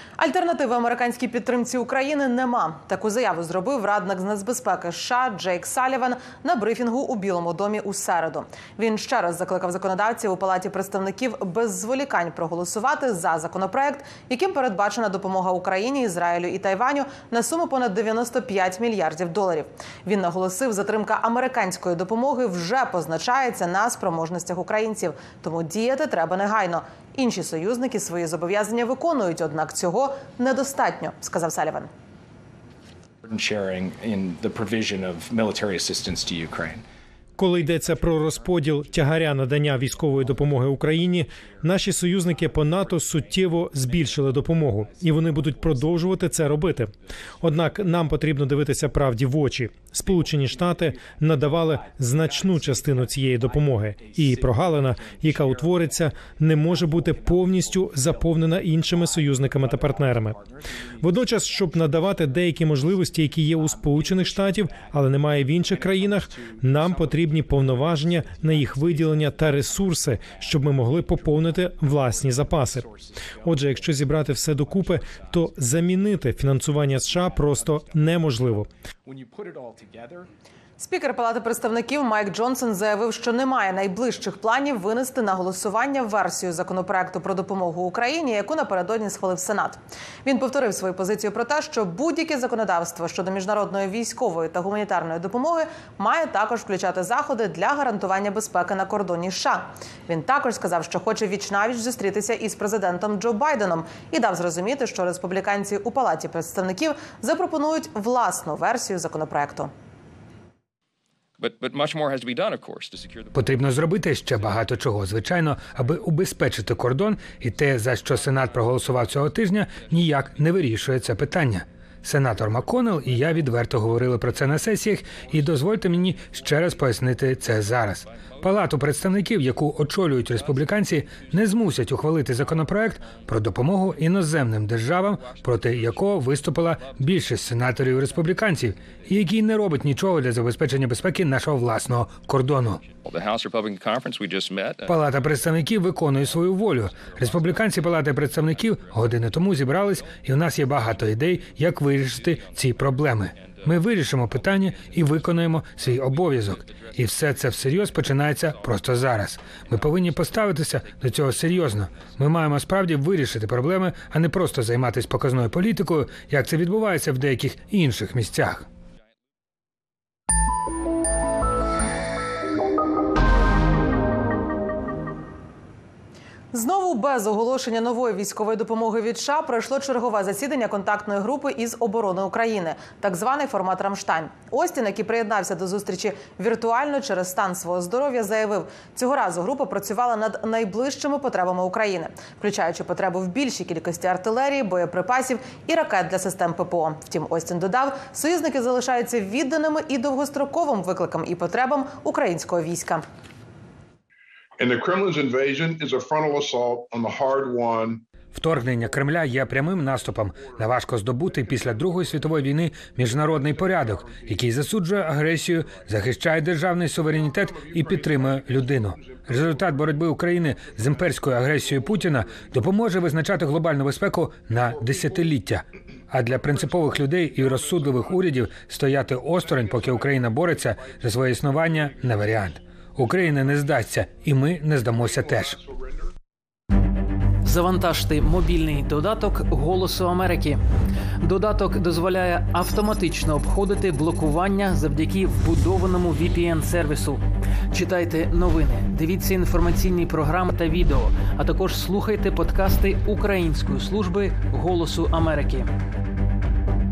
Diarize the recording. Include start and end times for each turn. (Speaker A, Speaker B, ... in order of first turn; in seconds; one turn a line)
Speaker A: 0.2-31.9
Speaker B: 33.2-36.9
Speaker C: 37.4-60.4
Speaker B: 37.5-48.1
Speaker B: 50.0-80.3
Speaker C: 61.0-72.9
Speaker C: 73.4-78.7
Speaker A: 80.8-109.7
Speaker D: 111.4-113.4
Speaker E: 113.3-142.8
Speaker F: 126.2-126.5
Speaker F: 128.1-128.4
Speaker F: 130.3-131.6
Speaker F: 135.1-137.3
Speaker D: 143.0-144.9
Speaker E: 144.9-168.7
Speaker F: 146.9-147.8
Speaker F: 148.5-149.0
Speaker F: 152.2-152.6
Speaker F: 153.3-153.6
Speaker F: 156.1-157.3
Speaker F: 158.3-158.8
Speaker F: 159.7-160.1
Speaker A: 176.5-203.0
Speaker F: 204.6-208.0
Speaker E: 208.3-235.6
Speaker F: 208.7-216.1
Speaker F: 217.0-223.1
Speaker F: 224.7-225.3
Speaker F: 226.2-228.4
Speaker F: 229.3-233.6
Speaker F: 235.0-236.1
Speaker G: 237.4-240.6
Speaker G: 241.2-255.7